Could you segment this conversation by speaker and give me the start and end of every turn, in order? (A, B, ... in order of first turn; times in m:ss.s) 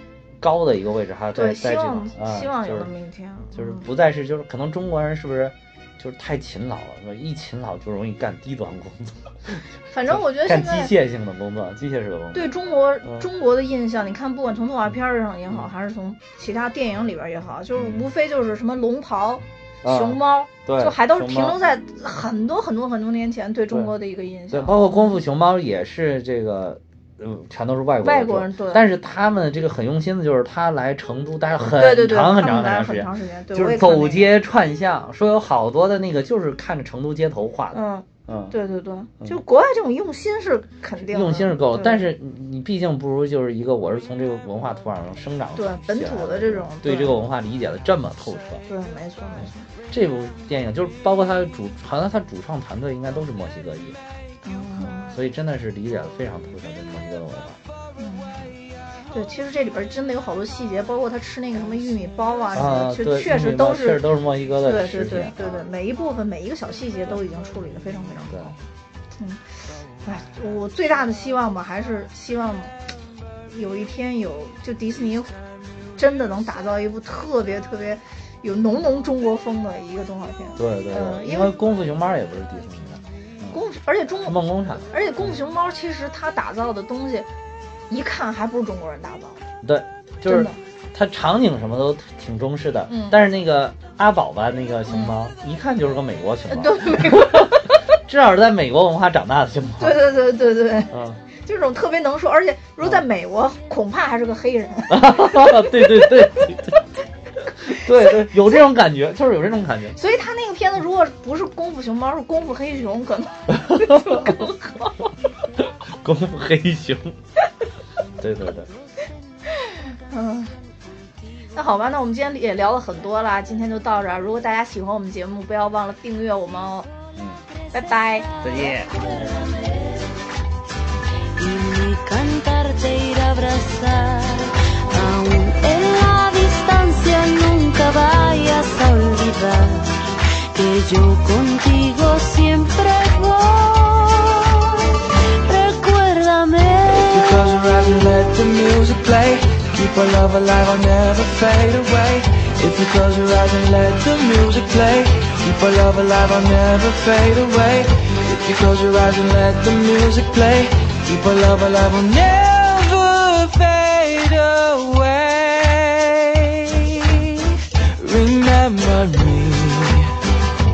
0:00.4-0:02.9 A
0:01.3-0:03.8 B
0:03.5-0:12.5 A
0:09.9-0:10.9 B
0:12.3-0:25.1 B
0:17.8-0:18.0 A
0:19.8-0:21.6 A
0:24.5-0:38.5 A
0:28.0-0:28.8 B
0:31.8-0:34.3 B
0:37.7-0:42.1 B
0:41.1-0:48.6 A
0:45.6-0:47.2 B
0:48.6-0:49.7 B
0:49.9-0:54.0 A
0:54.4-0:55.1 B
0:54.8-0:57.6 A
0:58.0-0:58.5 B
0:59.1-1:04.0 B
1:02.5-1:05.6 A
1:04.6-1:08.6 B
1:08.3-1:08.5 A
1:09.2-1:09.4 B
1:10.0-1:12.8 B
1:13.5-1:15.4 B
1:16.0-1:21.5 B
1:20.6-1:23.6 A
1:23.5-1:27.3 B
1:24.2-1:24.8 A
1:27.9-1:29.4 B
1:29.6-1:40.0 A
1:30.3-1:30.6 B
1:32.9-1:33.2 B
1:34.9-1:35.1 B
1:36.5-1:37.8 B
1:39.8-1:46.3 B
1:40.9-1:41.2 A
1:44.9-1:46.9 A
1:47.6-1:48.3 B
1:47.6-1:50.0 A
1:50.0-1:55.1 B
1:53.5-1:54.5 A
1:55.9-1:57.2 A
1:58.2-1:58.7 A
1:59.6-2:00.5 B
2:01.5-2:06.9 B
2:07.7-2:08.3 B
2:08.4-2:09.2 A
2:08.4-2:10.2 C
2:11.4-2:24.5 C
2:25.4-2:28.5 C
2:26.8-2:50.1 D